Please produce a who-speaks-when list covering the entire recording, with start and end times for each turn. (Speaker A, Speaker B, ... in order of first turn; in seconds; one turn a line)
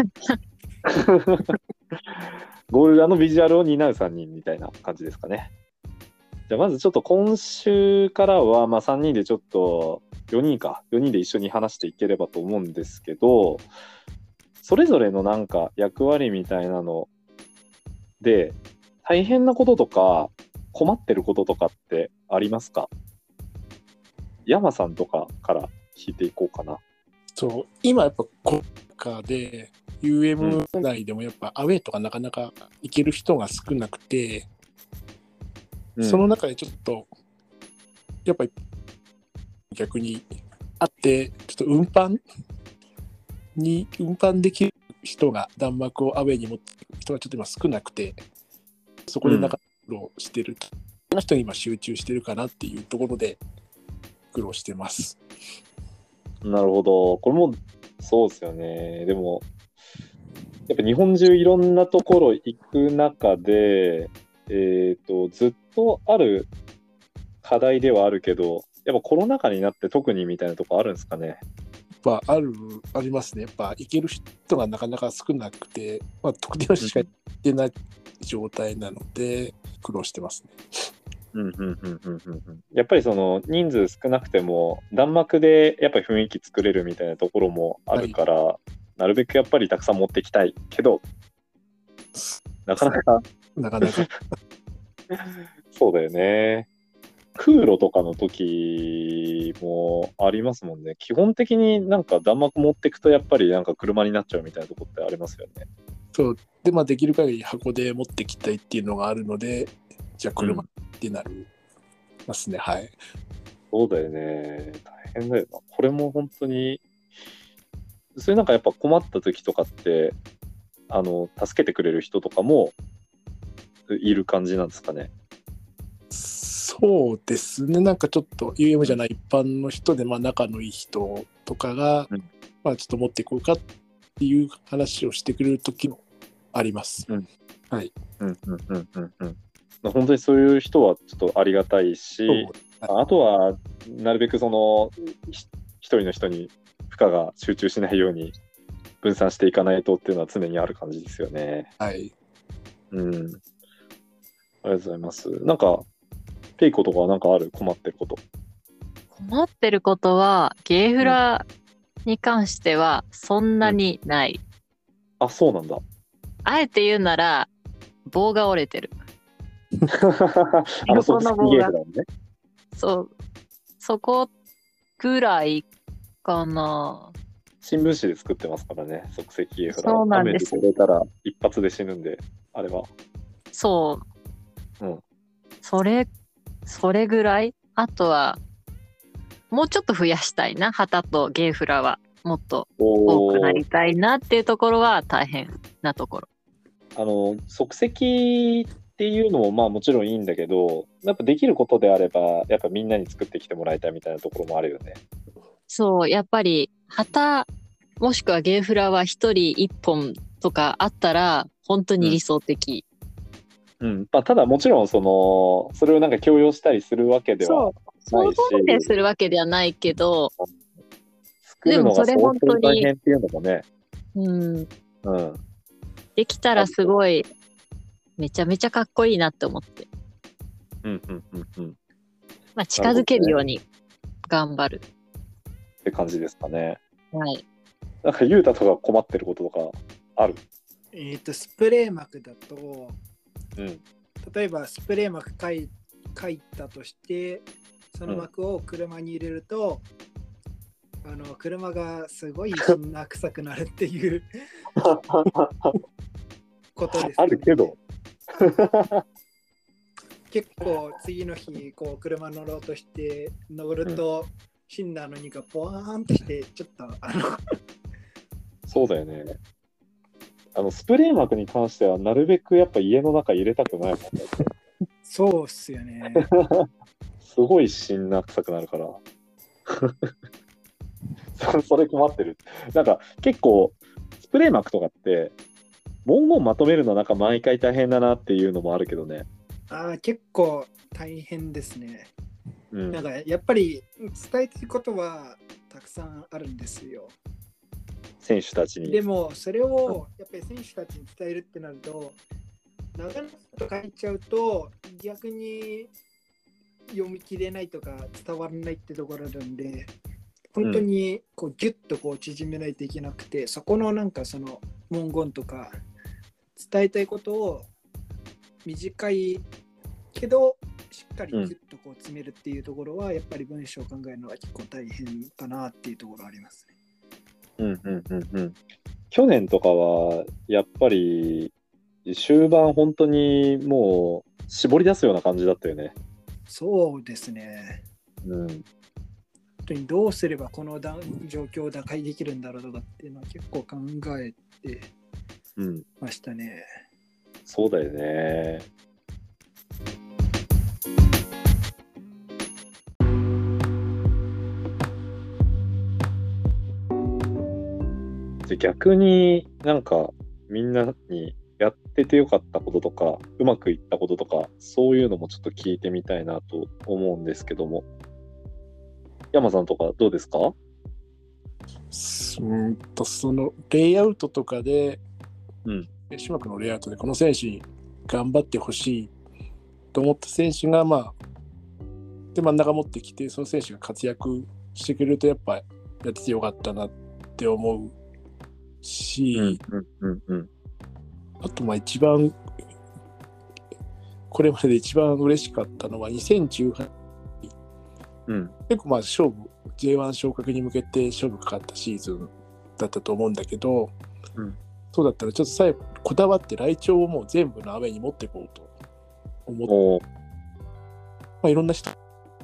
Speaker A: 0.9-2.2
Speaker A: 2.7-5.5
Speaker A: 6.5-13.7
Speaker A: 14.6-17.1
Speaker A: 18.2-22.9
Speaker A: 24.5-26.8
Speaker B: 27.4-34.5
Speaker A: 30.4-30.6
Speaker A: 36.0-36.3
Speaker B: 36.1-37.1
Speaker B: 38.2-38.5
Speaker B: 39.7-40.3
Speaker B: 40.8-42.2
Speaker B: 43.6-48.2
Speaker B: 49.1-53.4
Speaker A: 49.2-49.6
Speaker B: 54.3-55.2
Speaker A: 56.4-59.5
Speaker A: 60.7-66.5
Speaker A: 67.4-71.4
Speaker B: 72.0-80.9
Speaker A: 76.8-77.1
Speaker A: 81.3-91.0
Speaker A: 92.7-93.2
Speaker B: 93.6-94.1
Speaker A: 95.1-96.7
Speaker A: 97.4-105.7
Speaker B: 106.2-111.5
Speaker A: 110.4-110.7
Speaker B: 112.3-113.0
Speaker A: 113.7-116.9
Speaker A: 118.2-120.2
Speaker A: 120.9-122.8
Speaker A: 123.9-125.1
Speaker B: 126.1-132.1
Speaker B: 132.6-133.6
Speaker B: 134.2-136.0
Speaker B: 136.5-137.1
Speaker A: 138.2-148.3
Speaker B: 142.3-142.9
Speaker A: 149.0-151.7
Speaker B: 151.8-152.1
Speaker A: 152.9-153.4
Speaker A: 154.6-155.9
Speaker A: 156.6-158.2
Speaker C: 159.1-161.4
Speaker C: 162.1-164.4
Speaker A: 165.2-165.8
Speaker C: 166.4-167.5
Speaker C: 168.1-168.9
Speaker A: 170.0-172.1
Speaker C: 170.9-171.7
Speaker C: 172.8-173.1
Speaker C: 173.8-174.3
Speaker C: 175.0-175.7
Speaker C: 176.2-177.1
Speaker A: 177.6-182.9
Speaker C: 179.7-180.7
Speaker C: 183.5-184.0
Speaker C: 185.6-186.1
Speaker C: 186.7-188.4
Speaker C: 189.5-196.3
Speaker A: 192.8-193.6
Speaker A: 197.0-205.0
Speaker C: 205.7-207.5
Speaker C: 208.0-212.8
Speaker A: 213.8-218.9
Speaker C: 217.4-220.3
Speaker A: 221.5-223.7
Speaker C: 221.7-222.9
Speaker C: 224.2-224.7
Speaker A: 225.1-225.4
Speaker C: 226.2-227.3
Speaker A: 226.6-226.9
Speaker C: 228.2-229.9
Speaker A: 230.8-231.8
Speaker C: 232.6-233.6
Speaker A: 232.8-233.4
Speaker C: 234.3-234.8
Speaker A: 235.8-236.8
Speaker C: 237.1-237.4
Speaker A: 238.0-240.4
Speaker D: 240.9-243.0
Speaker A: 243.6-243.8
Speaker D: 244.2-249.9
Speaker D: 251.0-254.3
Speaker A: 254.8-255.8
Speaker D: 256.8-257.8
Speaker A: 257.0-257.8
Speaker A: 258.4-259.0
Speaker D: 260.3-267.4
Speaker A: 268.7-269.4
Speaker A: 270.6-274.4
Speaker D: 275.1-276.3
Speaker A: 276.2-276.7
Speaker A: 277.2-279.0
Speaker A: 279.7-280.1
Speaker A: 281.4-285.4
Speaker A: 286.1-289.3
Speaker D: 289.7-292.1
Speaker A: 292.7-293.1
Speaker D: 292.9-297.2
Speaker A: 298.2-299.0
Speaker D: 298.9-302.2
Speaker D: 302.9-305.9
Speaker D: 306.9-309.9
Speaker D: 310.5-315.8
Speaker A: 310.6-310.9
Speaker D: 316.6-317.7
Speaker D: 318.6-319.5
Speaker D: 320.1-326.7
Speaker A: 327.6-328.6
Speaker A: 329.1-331.5
Speaker A: 332.1-335.9
Speaker D: 336.5-337.8
Speaker A: 338.2-338.6
Speaker D: 339.6-344.9
Speaker A: 345.6-345.9
Speaker D: 346.0-346.7
Speaker A: 347.5-348.7
Speaker A: 358.5-367.9
Speaker A: 369.3-370.5
Speaker B: 371.9-375.0
Speaker B: 376.1-379.1
Speaker B: 379.9-381.2
Speaker B: 382.3-388.0
Speaker B: 388.8-389.6
Speaker A: 389.3-390.5
Speaker B: 391.4-392.4
Speaker B: 394.3-396.9
Speaker A: 398.3-398.5
Speaker B: 398.7-404.0
Speaker B: 404.9-408.7
Speaker A: 409.7-410.0
Speaker B: 411.4-411.9